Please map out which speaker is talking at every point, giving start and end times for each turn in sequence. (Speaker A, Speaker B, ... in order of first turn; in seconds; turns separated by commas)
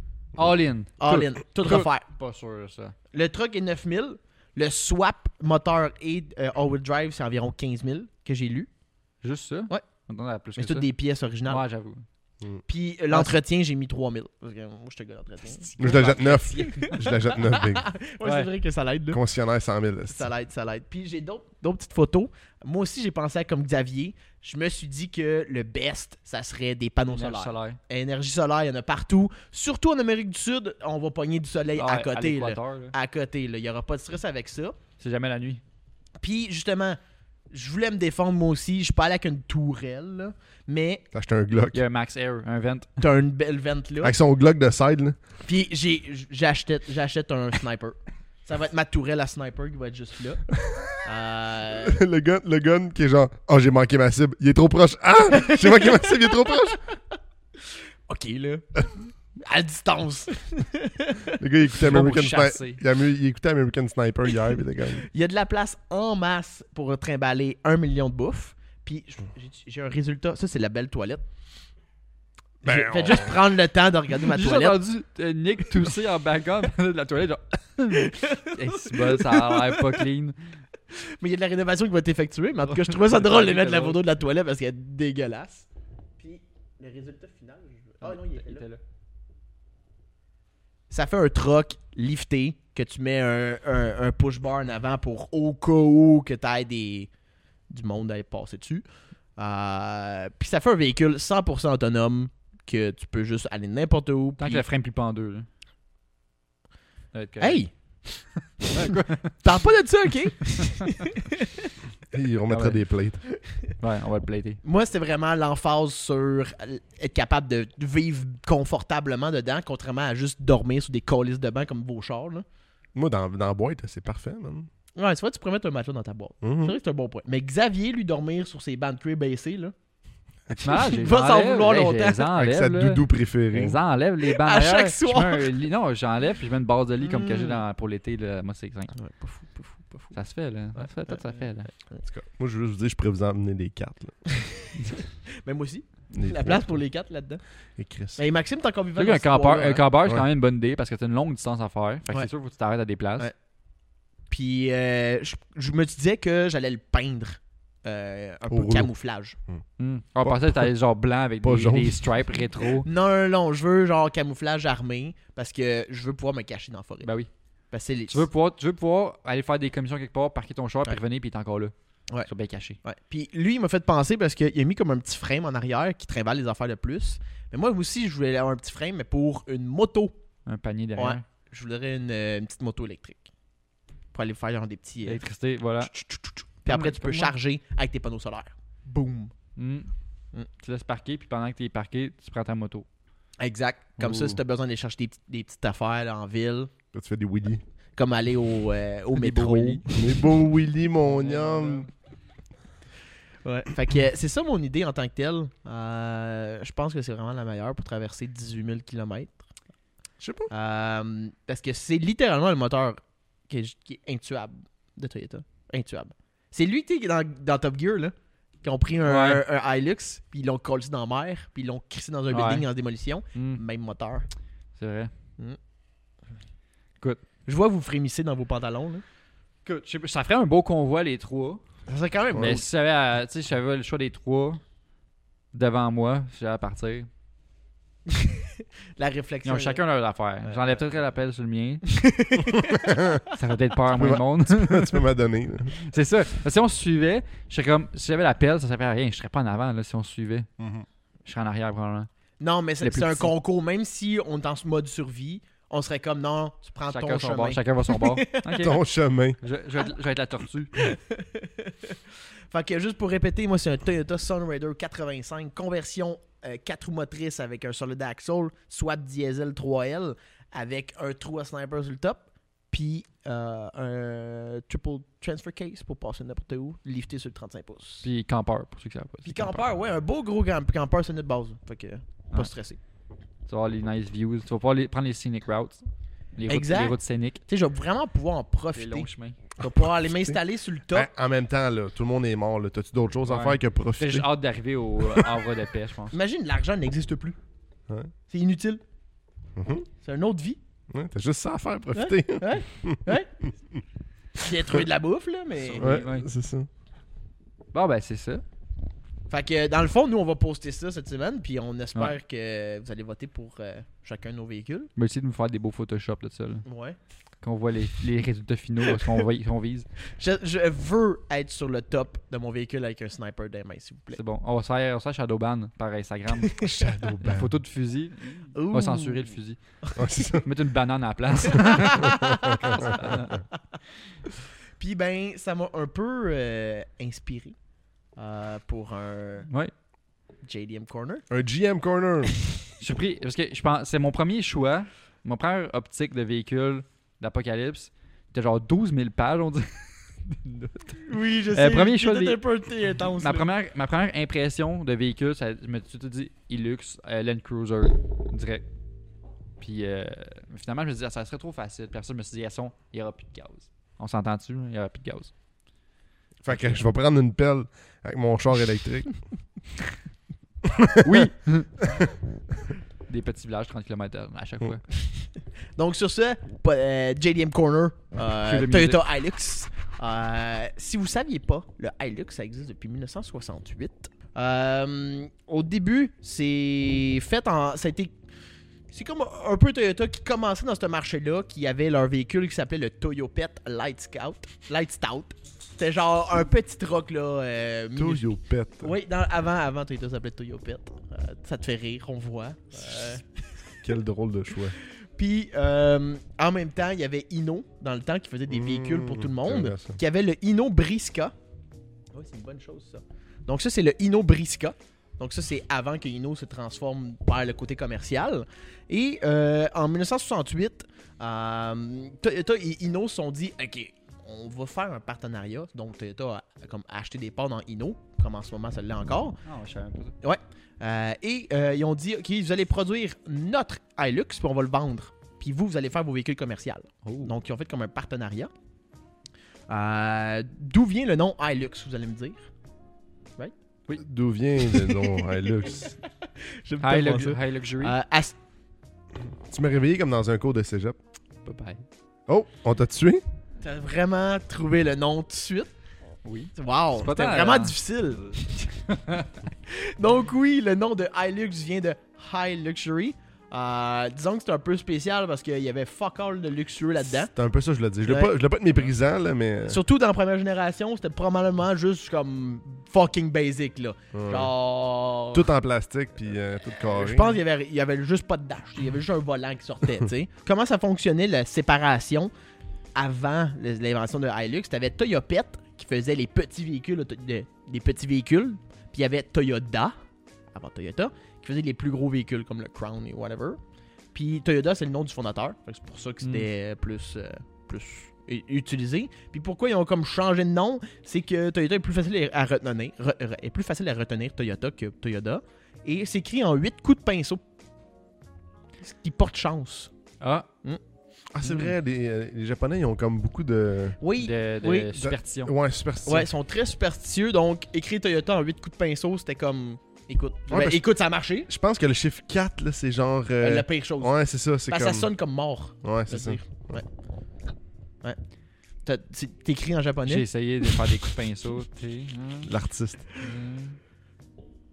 Speaker A: 0.4-3.0, Speaker B: 1.0-2.1, Speaker B: 3.1-8.7, Speaker A: 9.2-10.9, Speaker B: 10.6-11.6, Speaker A: 11.5-12.1, Speaker B: 12.7-19.2, Speaker C: 15.8-17.9, Speaker A: 15.8-16.4, Speaker A: 18.2-18.5, Speaker C: 19.1-20.3, Speaker B: 20.1-34.8, Speaker A: 27.1-27.8, Speaker A: 31.8-32.9, Speaker A: 35.0-35.6, Speaker B: 36.2-37.0, Speaker B: 37.5-41.0, Speaker C: 41.1-41.8, Speaker A: 41.7-42.9, Speaker B: 43.0-44.1, Speaker C: 44.0-45.2, Speaker B: 45.4-50.4, Speaker B: 51.0-52.0, Speaker C: 51.8-56.8, Speaker B: 55.3-56.8, Speaker B: 57.6-58.8, Speaker B: 59.4-61.4, Speaker C: 61.4-65.1, Speaker A: 61.8-62.8, Speaker B: 65.0-71.2, Speaker C: 72.6-73.4, Speaker B: 72.7-74.8, Speaker A: 74.2-80.4, Speaker B: 77.9-80.1, Speaker B: 80.9-85.7, Speaker A: 82.7-84.0, Speaker B: 86.2-88.7, Speaker A: 88.0-88.8, Speaker B: 90.9-97.1, Speaker B: 97.7-98.8, Speaker B: 99.4-104.7, Speaker A: 104.4-105.5, Speaker A: 107.1-107.7, Speaker B: 107.4-107.7, Speaker A: 108.6-109.4, Speaker B: 108.8-111.7, Speaker A: 110.5-110.9, Speaker C: 112.1-113.2, Speaker A: 112.5-112.8, Speaker B: 113.5-113.7, Speaker A: 113.8-114.6, Speaker B: 114.6-122.5, Speaker C: 123.0-124.7, Speaker B: 125.0-129.7, Speaker C: 126.4-126.8, Speaker B: 130.5-132.3, Speaker A: 130.6-139.0, Speaker C: 132.3-133.8, Speaker B: 134.2-135.5, Speaker B: 137.0-137.6, Speaker B: 139.0-140.2, Speaker A: 140.1-141.7, Speaker B: 140.8-142.0, Speaker C: 142.0-144.2, Speaker B: 144.4-144.7, Speaker B: 145.4-147.4, Speaker C: 146.1-146.8, Speaker C: 147.8-148.2, Speaker B: 148.2-149.8, Speaker A: 149.0-153.3, Speaker B: 154.3-159.4, Speaker C: 158.5-158.9, Speaker A: 159.8-162.9, Speaker C: 160.2-160.7, Speaker C: 161.4-162.0, Speaker B: 162.8-167.1, Speaker A: 167.0-167.3, Speaker B: 167.7-168.3, Speaker A: 168.1-171.7, Speaker A: 172.2-172.8, Speaker B: 172.8-180.2, Speaker A: 180.5-181.2, Speaker B: 181.0-183.3, Speaker B: 184.1-185.2, Speaker A: 185.1-186.0, Speaker B: 185.8-189.3, Speaker A: 186.7-187.3, Speaker A: 189.6-189.9, Speaker A: 190.6-192.9, Speaker B: 193.4-196.7, Speaker A: 194.0-194.4, Speaker C: 196.9-197.6, Speaker B: 198.0-199.8, Speaker A: 199.2-199.9, Speaker C: 199.9-201.9, Speaker A: 201.0-201.9, Speaker B: 203.4-209.4, Speaker C: 210.2-210.5, Speaker B: 210.5-224.3, Speaker A: 219.1-219.4, Speaker A: 222.3-222.7, Speaker A: 223.3-223.6, Speaker A: 224.8-225.1, Speaker B: 227.5-229.0, Speaker A: 229.7-231.6, Speaker B: 231.9-232.7, Speaker A: 232.4-234.6, Speaker A: 235.5-237.1, Speaker B: 238.1-239.8, Speaker A: 239.4-241.9, Speaker B: 240.4-240.8, Speaker B: 241.9-243.0, Speaker C: 242.6-243.2, Speaker A: 243.3-245.0, Speaker C: 243.9-245.9, Speaker A: 245.8-250.5, Speaker C: 250.6-250.8, Speaker A: 251.2-252.1, Speaker B: 252.4-258.7, Speaker A: 252.8-253.3, Speaker A: 256.9-258.8, Speaker C: 258.6-259.4, Speaker A: 259.4-260.9, Speaker B: 260.8-278.1, Speaker A: 278.0-279.6, Speaker B: 279.2-282.8, Speaker A: 283.5-285.8, Speaker A: 286.4-287.4, Speaker B: 286.5-291.1, Speaker A: 288.7-289.4, Speaker C: 289.6-290.4, Speaker C: 290.9-294.3, Speaker A: 293.3-296.1, Speaker B: 296.1-297.4, Speaker B: 298.3-298.8, Speaker C: 299.6-299.9, Speaker B: 300.0-300.6, Speaker C: 300.9-303.0, Speaker B: 301.9-303.3, Speaker B: 304.4-306.0, Speaker A: 305.6-306.3, Speaker C: 305.8-306.7, Speaker A: 307.7-308.4, Speaker B: 309.3-314.9, Speaker A: 315.0-316.6, Speaker B: 316.6-317.0, Speaker A: 317.4-319.9, Speaker B: 320.2-324.2, Speaker A: 324.1-326.6, Speaker B: 326.4-326.7, Speaker C: 326.6-327.5, Speaker A: 327.2-329.8, Speaker B: 328.5-330.0, Speaker C: 330.0-330.5, Speaker A: 330.4-332.2, Speaker B: 331.5-333.2, Speaker C: 332.0-332.9, Speaker A: 332.7-333.4, Speaker B: 334.8-337.6, Speaker B: 338.2-339.5, Speaker B: 340.4-341.2, Speaker C: 341.3-342.3, Speaker A: 342.8-352.4, Speaker B: 351.0-353.5, Speaker A: 353.2-358.6, Speaker A: 359.6-365.3, Speaker C: 366.4-369.1, Speaker A: 366.5-366.8, Speaker C: 370.7-371.3, Speaker A: 371.0-371.9, Speaker A: 373.1-374.8, Speaker B: 375.8-388.1, Speaker A: 378.4-379.0, Speaker B: 388.9-403.4, Speaker C: 398.0-398.9, Speaker C: 403.8-404.8, Speaker B: 404.8-411.3, Speaker C: 408.5-410.0, Speaker B: 412.1-429.4, Speaker A: 429.5-430.1, Speaker B: 430.2-438.5, Speaker A: 437.1-437.3, Speaker B: 439.7-442.5, Speaker C: 444.0-446.0, Speaker B: 444.8-445.5, Speaker B: 446.2-448.4, Speaker A: 446.8-447.9, Speaker C: 449.5-451.0, Speaker A: 451.4-451.8, Speaker C: 452.3-453.2, Speaker B: 453.6-455.7, Speaker A: 456.2-457.8, Speaker B: 456.6-458.7, Speaker A: 458.3-459.4, Speaker B: 459.7-467.3, Speaker C: 467.2-469.8, Speaker B: 468.1-468.3, Speaker B: 469.7-475.5, Speaker C: 474.1-474.5, Speaker C: 475.3-477.4, Speaker B: 476.9-482.3, Speaker B: 482.9-489.9, Speaker B: 490.5-493.6, Speaker B: 494.1-507.4, Speaker A: 496.2-496.5, Speaker B: 508.8-509.9, Speaker A: 510.2-510.5, Speaker C: 511.4-514.0, Speaker A: 511.4-511.7, Speaker B: 514.0-514.9, Speaker A: 514.2-515.5, Speaker C: 515.0-516.3, Speaker B: 516.1-521.5, Speaker C: 520.5-520.8, Speaker C: 521.5-525.1, Speaker B: 523.4-524.2, Speaker B: 524.7-526.9, Speaker C: 525.8-526.8, Speaker B: 528.8-530.2, Speaker A: 530.1-532.5, Speaker C: 532.5-533.0, Speaker A: 533.2-533.8